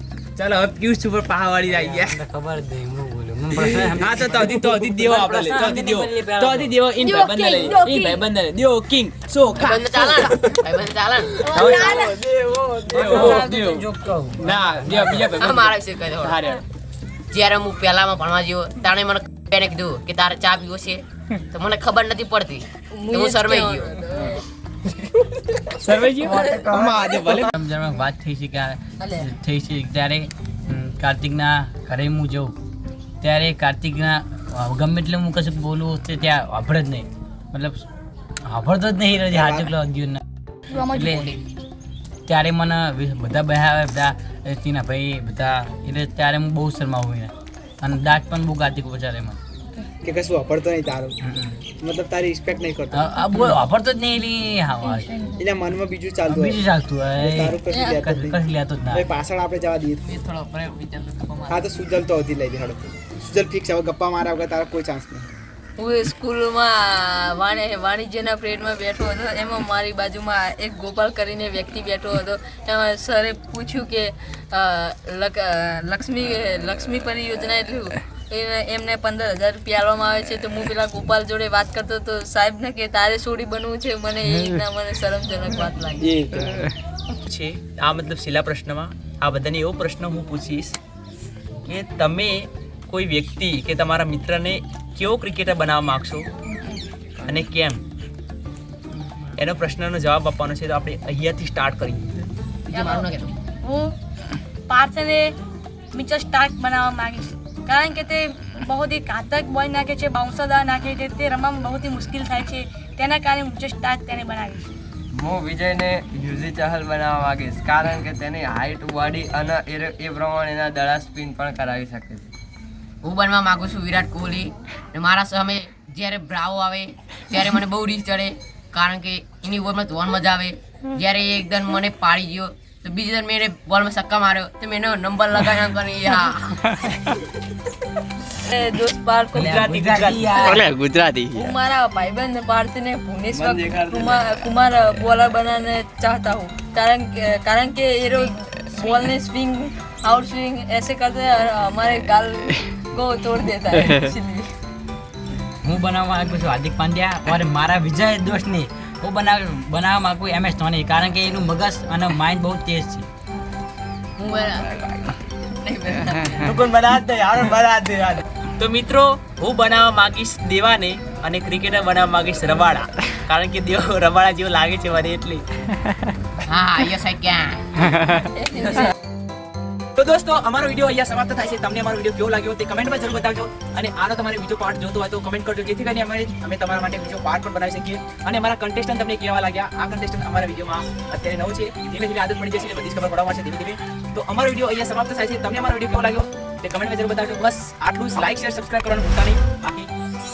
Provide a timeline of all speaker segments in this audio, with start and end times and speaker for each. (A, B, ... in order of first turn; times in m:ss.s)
0:00.4-0:02.2 A
0:01.6-0:06.8 B
0:03.6-0:10.6 A
0:07.0-0:08.2 C
0:09.6-0:11.4 D
0:11.4-0:12.3 C
0:11.5-0:12.1 A
0:11.6-0:15.4 B
0:12.9-0:16.6 A
0:15.3-0:16.4 D
0:17.3-0:24.0 D
0:22.9-0:24.4 E
0:25.8-0:27.5 A
0:26.2-0:26.8 E
0:26.8-0:32.5 B
0:33.2-0:37.8 B
0:38.4-0:40.2 B
0:40.7-0:41.4 C
0:40.8-0:41.3 B
0:42.3-0:49.4 B
0:50.0-0:51.2 A
0:51.2-0:51.6 B
0:51.8-0:53.1 A
0:52.9-0:55.1 B
0:54.8-0:55.4 C
0:55.4-0:56.6 A
0:56.2-0:59.1 B
0:57.2-1:00.0 A
0:57.7-0:58.0 E
1:00.0-1:01.7 D
1:01.5-1:05.3 A
1:05.8-1:26.1 E
1:26.0-1:26.7 A
1:27.2-1:30.8 A
1:31.7-1:36.3 A
1:37.2-1:37.8 A
1:39.4-1:42.2 A
1:42.7-1:43.3 D
1:42.7-1:43.1 C
1:43.6-1:43.9 C
1:44.7-1:45.3 C
1:45.9-1:54.6 C
1:55.1-2:02.3 F
2:03.0-2:16.7 D
2:18.4-2:19.7 E
2:19.3-2:20.7 A
2:19.3-2:20.8 B
2:20.3-2:20.6 E
2:20.9-2:21.1 D
2:21.3-2:34.5 E
2:23.3-2:24.2 A
2:35.6-2:43.0 B
2:44.2-2:46.6 D
2:46.4-2:55.4 A
2:56.5-2:57.6 D
2:58.3-2:58.9 E
3:00.0-3:19.9 A